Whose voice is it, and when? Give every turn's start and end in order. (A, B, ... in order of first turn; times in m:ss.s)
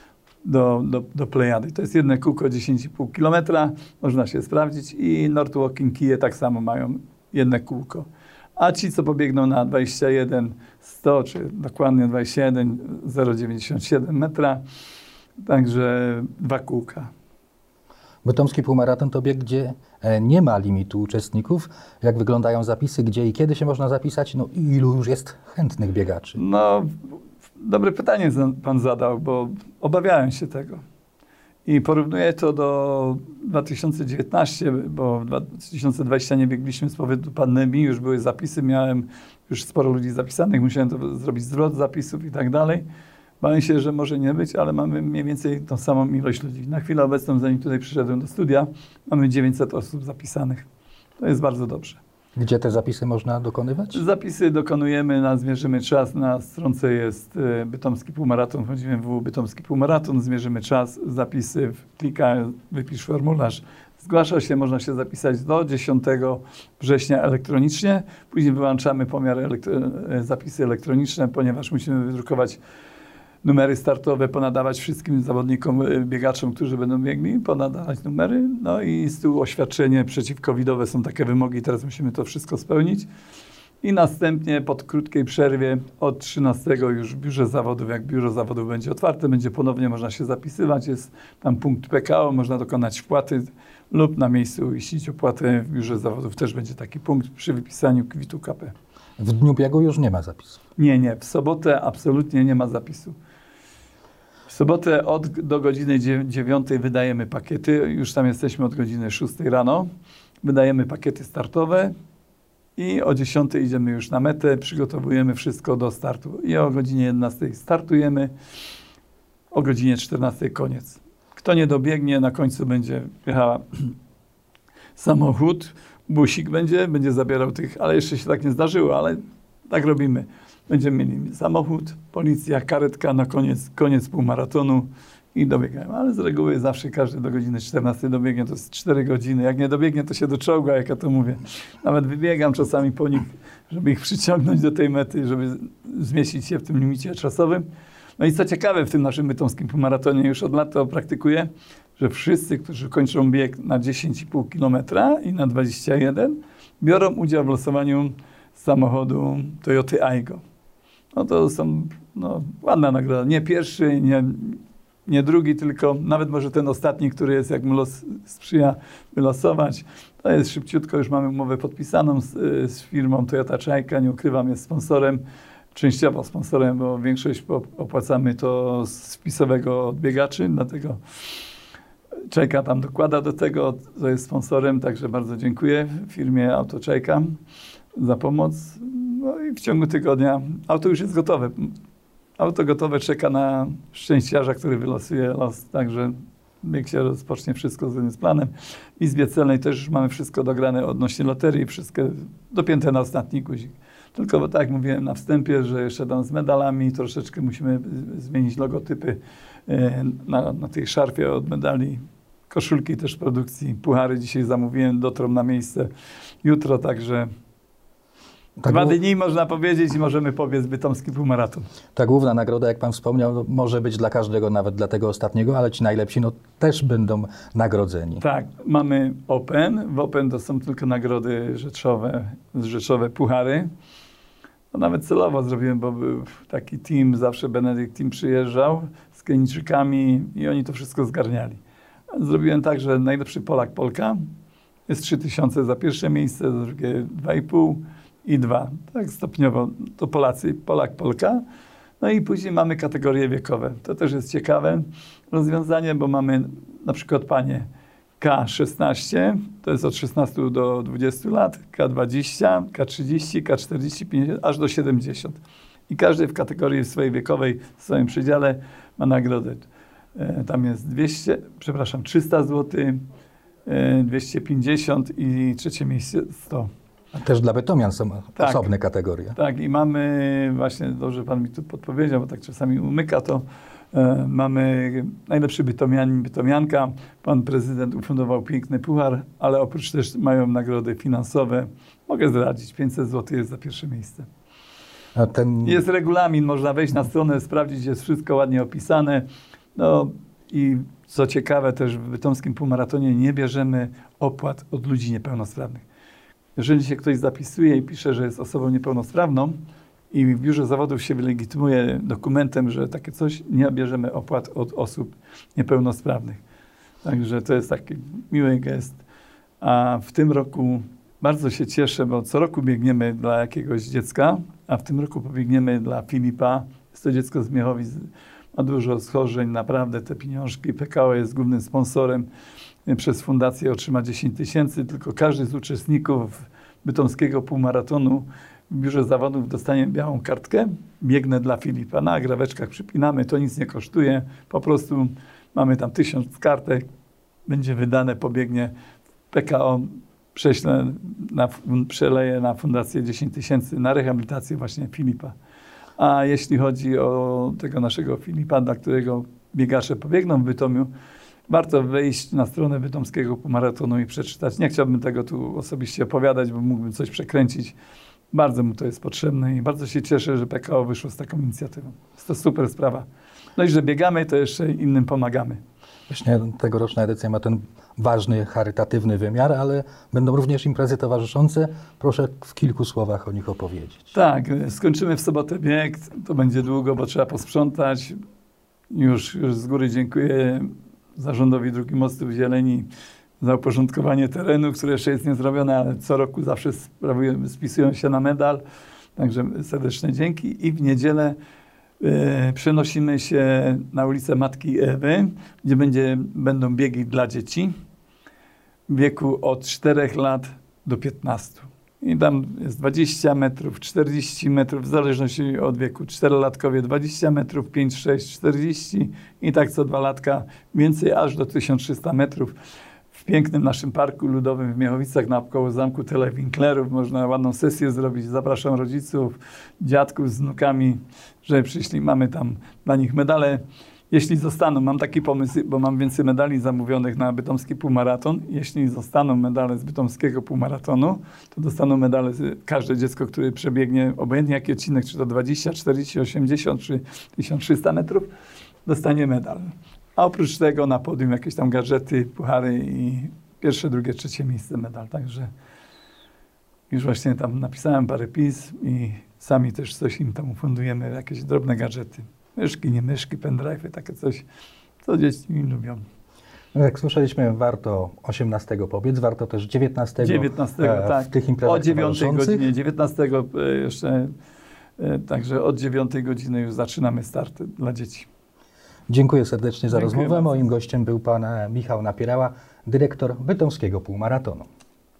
0:00.4-0:14.6 A
0:15.4-0:17.1 A
0:18.2-0:26.4 B
0:26.4-0:30.8 A
0:31.6-0:42.8 A
0:43.4-0:50.6 A
0:51.2-0:52.0 A
0:52.4-0:54.0 B
0:53.9-1:12.6 A
1:13.4-1:23.1 A
1:23.8-1:38.7 A
1:39.2-1:40.6 B
1:40.8-1:43.2 A
1:44.5-1:49.9 A
1:50.4-1:51.9 A
1:52.8-1:58.3 A
1:59.5-2:04.0 A
2:05.0-2:27.6 A
2:28.2-2:40.4 A
2:41.1-2:55.2 A
2:55.7-3:01.0 A
3:02.3-3:07.4 A
3:08.0-3:11.8 A
3:12.4-3:35.9 A
3:36.4-3:37.3 A
3:38.6-3:39.0 B
3:38.6-3:41.7 A
3:42.0-3:48.2 B
3:48.2-3:53.7 A
3:54.7-4:01.6 A
4:02.1-4:04.3 A
4:04.9-4:11.4 A
4:12.0-4:17.7 A
4:18.2-4:29.6 A
4:30.2-4:33.0 A
4:33.7-4:36.7 A
4:37.1-4:39.4 B
4:38.4-4:38.7 A
4:39.4-4:54.3 A
4:55.2-4:55.8 B
4:55.6-4:59.2 A
4:59.8-5:05.8 A
5:06.6-5:09.6 A
5:10.1-5:16.4 A
5:17.0-5:19.0 A
5:19.6-5:32.3 A
5:32.9-5:46.8 A
5:47.5-5:48.7 A
5:49.3-5:55.4 A
5:56.0-6:00.9 A
6:01.5-6:07.8 A
6:08.3-6:13.1 A
6:13.6-6:15.6 A
6:16.1-6:24.1 B
6:24.1-6:28.2 A
6:28.9-6:32.9 A
6:33.4-6:38.6 A
6:39.2-6:41.4 A
6:42.0-6:47.7 A
6:48.9-7:02.5 A
7:03.1-7:28.3 A
7:28.9-7:35.5 A
7:36.9-7:44.4 A
7:45.0-7:46.0 A
7:46.7-7:52.7 B
7:50.2-7:54.3 A
7:55.0-7:58.3 A
7:59.1-8:04.7 B
7:59.9-8:00.5 A